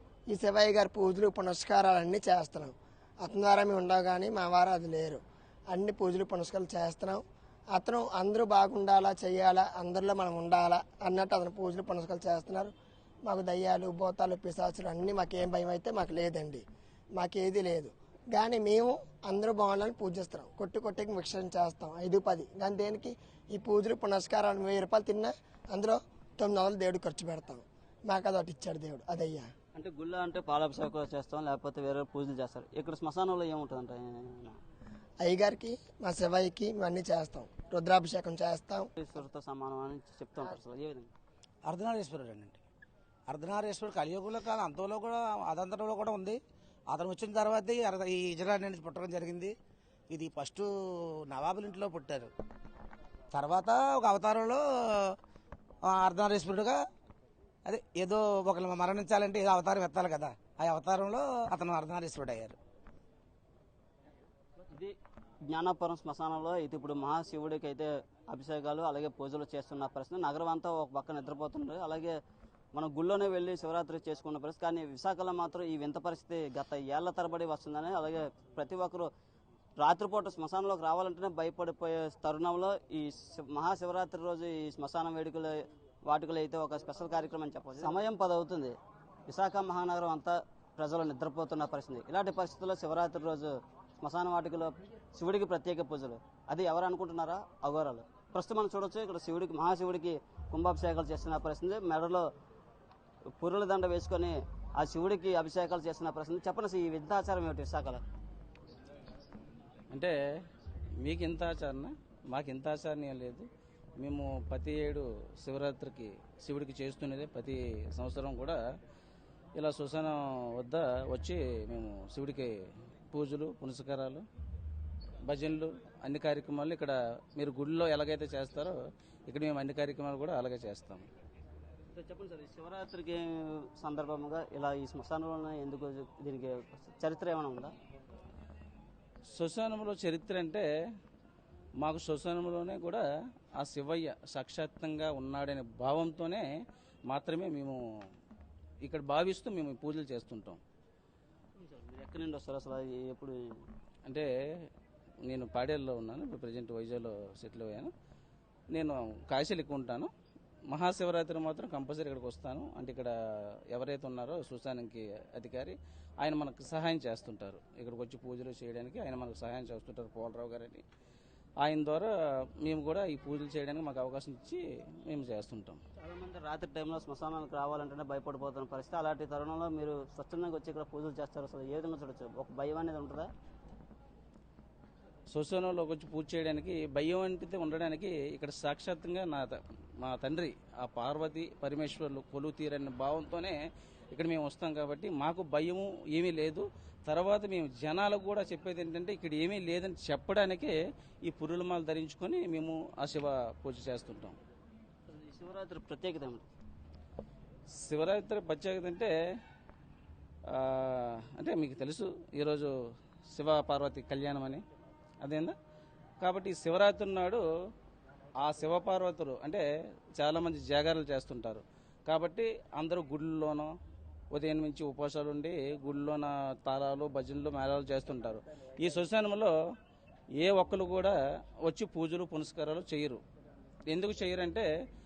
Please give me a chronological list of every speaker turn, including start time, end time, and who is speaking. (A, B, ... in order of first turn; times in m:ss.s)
0:00.3-0:12.7 A
0:13.2-0:16.6 A
0:17.2-0:29.5 A
0:29.8-0:34.6 B
0:35.2-0:38.9 A
0:39.0-0:41.1 B
0:41.7-0:42.6 C
0:43.3-0:46.4 C
0:46.9-0:49.5 C
0:50.1-0:52.3 C
0:53.3-0:55.2 C
0:55.8-0:56.8 C
0:57.7-1:02.6 C
1:04.7-1:05.0 B
1:05.5-1:12.2 B
1:12.7-1:19.1 B
1:19.8-1:28.8 B
1:29.3-1:42.3 B
1:43.4-1:48.0 B
1:49.9-1:50.5 D
1:51.0-1:53.5 D
1:54.0-1:58.6 D
1:59.6-2:02.5 D
2:03.1-2:04.2 D
2:05.2-2:08.8 D
2:09.3-2:11.1 D
2:11.9-2:17.7 B
2:19.3-2:20.6 D
2:21.8-2:23.0 D
2:23.6-2:26.5 D
2:27.1-2:27.8 D
2:28.8-2:30.6 D
2:31.6-2:33.4 B
2:34.1-2:34.7 D
2:35.2-2:37.9 D
2:38.7-2:40.1 D
2:40.7-2:43.1 D
2:43.7-2:50.8 D
2:51.6-2:52.1 D
2:52.6-2:55.8 D
2:56.0-3:03.3 B
3:05.3-3:13.6 D
3:14.1-3:20.8 D
3:21.3-3:24.4 D
3:25.1-3:26.5 B
3:27.8-3:29.1 D
3:30.5-3:32.7 D
3:33.3-3:34.6 D
3:35.2-3:35.6 D
3:36.2-3:37.4 D
3:38.4-3:39.6 D
3:40.2-3:43.7 D
3:44.3-3:49.5 D
3:50.4-3:53.2 D
3:53.9-3:54.7 D